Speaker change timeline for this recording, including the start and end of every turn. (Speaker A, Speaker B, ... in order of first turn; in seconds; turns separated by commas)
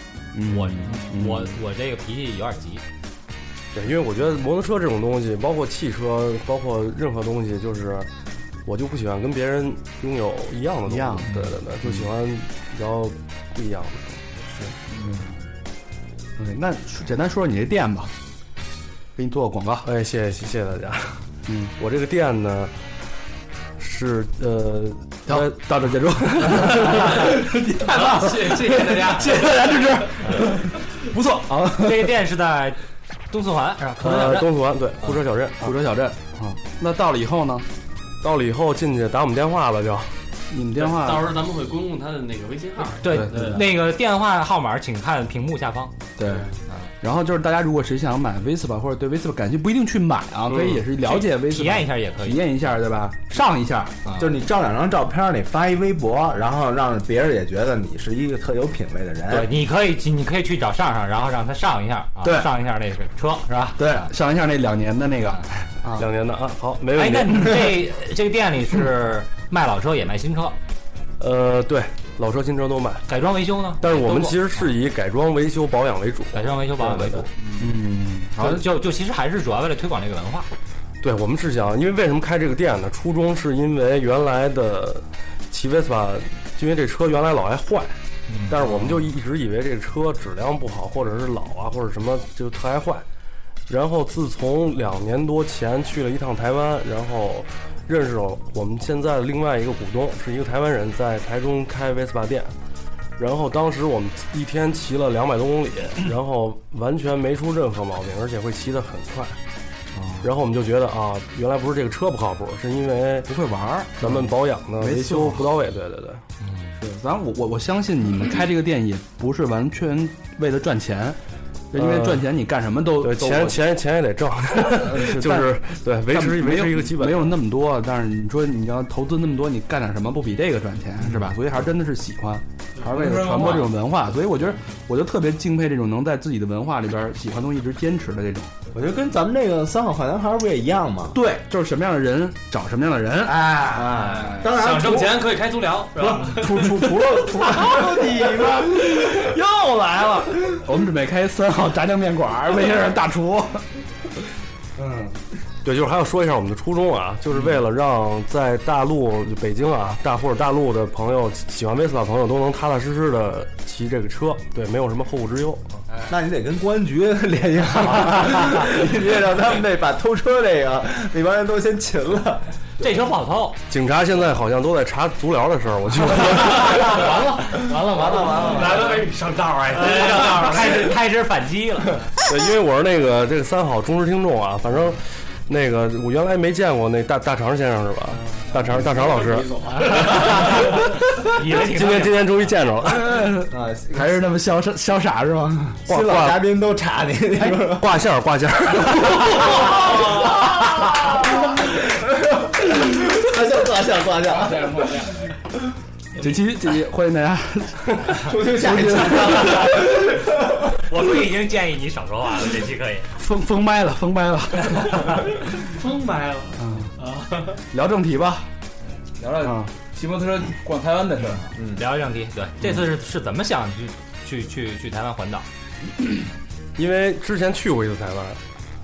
Speaker A: 0.3-1.6, Speaker B: 0.5-2.8, Speaker C: 3.7-8.1, Speaker C: 8.7-14.2, Speaker A: 10.9-12.1, Speaker B: 11.3-11.5, Speaker A: 14.4-15.3, Speaker A: 16.4-18.1, Speaker A: 19.2-19.9, Speaker C: 19.9-21.2, Speaker A: 21.5-21.7, Speaker C: 21.8-22.7, Speaker C: 23.8-27.3, Speaker A: 25.3-32.2, Speaker D: 27.7-29.7, Speaker B: 31.7-32.8, Speaker B: 33.3-34.5, Speaker C: 34.0-35.7, Speaker A: 35.6-37.7, Speaker C: 38.2-40.1, Speaker A: 40.5-41.3, Speaker D: 40.8-43.6, Speaker B: 43.0-45.9, Speaker A: 43.1-43.6, Speaker A: 46.2-46.5, Speaker D: 46.2-46.6, Speaker A: 47.0-54.0, Speaker B: 50.6-52.5, Speaker E: 54.1-59.5, Speaker B: 59.3-63.8, Speaker A: 62.2-62.5, Speaker A: 63.8-66.1, Speaker C: 66.0-67.7, Speaker B: 66.9-70.6, Speaker C: 71.2-73.1, Speaker B: 73.1-74.7, Speaker C: 73.8-77.3, Speaker B: 76.3-77.3, Speaker A: 77.6-78.7, Speaker B: 78.4-80.5, Speaker C: 81.0-93.0, Speaker B: 88.3-89.1, Speaker C: 93.7-102.5, Speaker C: 103.2-109.4, Speaker A: 109.9-110.3, Speaker C: 110.2-113.3, Speaker A: 113.3-115.5, Speaker C: 114.0-116.2, Speaker B: 116.4-116.7, Speaker A: 116.8-121.2, Speaker A: 121.7-123.6, Speaker C: 121.8-122.3, Speaker C: 123.0-127.4, Speaker A: 124.7-138.5, Speaker F: 132.9-133.7, Speaker E: 138.7-141.2, Speaker A: 141.1-144.4, Speaker E: 143.2-145.3, Speaker F: 144.0-144.4, Speaker D: 144.4-146.7, Speaker E: 146.0-149.2, Speaker A: 146.2-153.7, Speaker C: 155.6-165.7, Speaker E: 166.1-172.5, Speaker B: 172.8-173.6, Speaker C: 173.7-177.1, Speaker B: 176.5-178.9, Speaker D: 176.9-180.9, Speaker E: 177.7-179.0, Speaker B: 179.7-182.1, Speaker C: 182.2-189.5, Speaker D: 188.4-190.6, Speaker B: 189.7-192.4, Speaker C: 191.6-193.3, Speaker A: 192.8-195.8, Speaker E: 193.5-194.3, Speaker E: 195.6-197.9, Speaker C: 195.9-196.5, Speaker C: 197.4-199.7, Speaker E: 199.2-205.0, Speaker F: 204.3-205.2, Speaker A: 206.2-210.1, Speaker E: 208.1-210.6, Speaker B: 210.8-213.1, Speaker A: 213.2-215.3, Speaker D: 215.6-217.6, Speaker A: 216.6-216.9, Speaker A: 217.7-218.5, Speaker F: 219.2-221.5, Speaker A: 219.4-219.7, Speaker E: 221.6-221.8, Speaker B: 221.7-225.5, Speaker C: 226.8-228.4